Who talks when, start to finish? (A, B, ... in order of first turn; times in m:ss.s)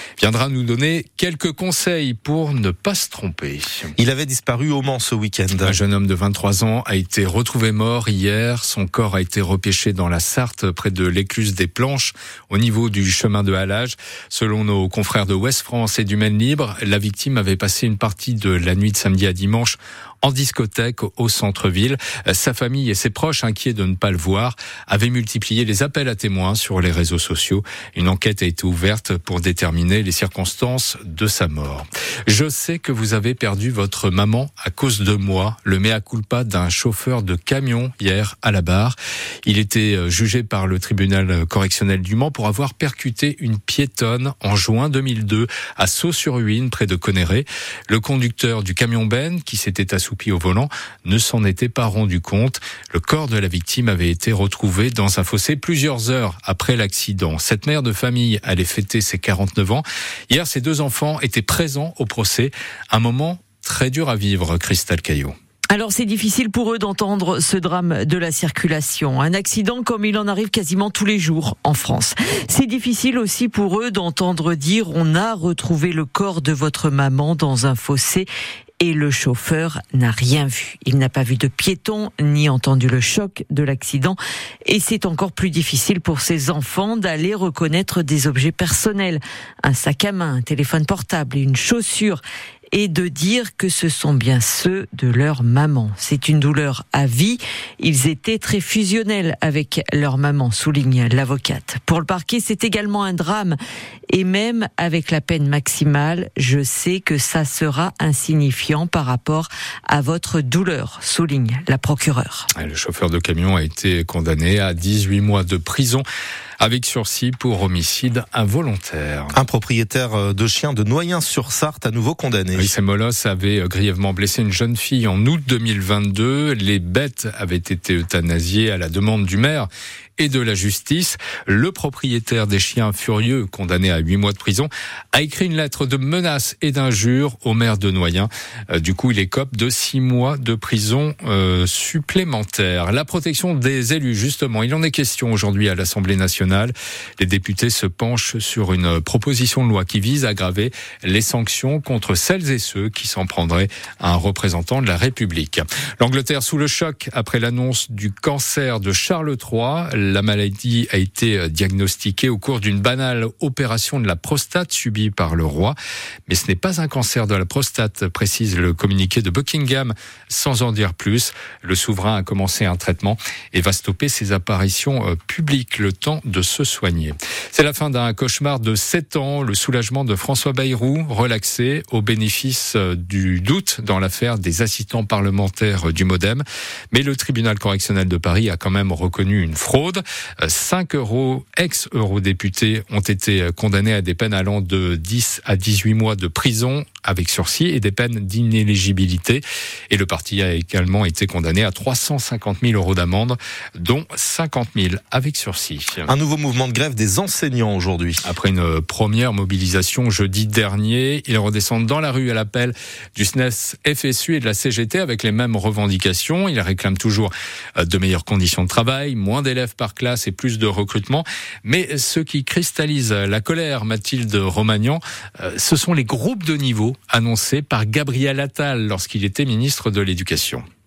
0:00.2-0:03.9 A
0:04.0-0:05.8 B
0:05.6-1:05.3 A
1:05.7-1:18.3 C
1:18.8-1:43.6 C
1:44.1-1:52.5 C
1:52.6-1:56.0 A
1:56.6-1:59.3 A
1:59.3-2:02.7 B
2:02.5-2:45.8 A
2:46.3-3:26.1 A
3:26.1-3:28.3 B
3:28.2-3:50.6 A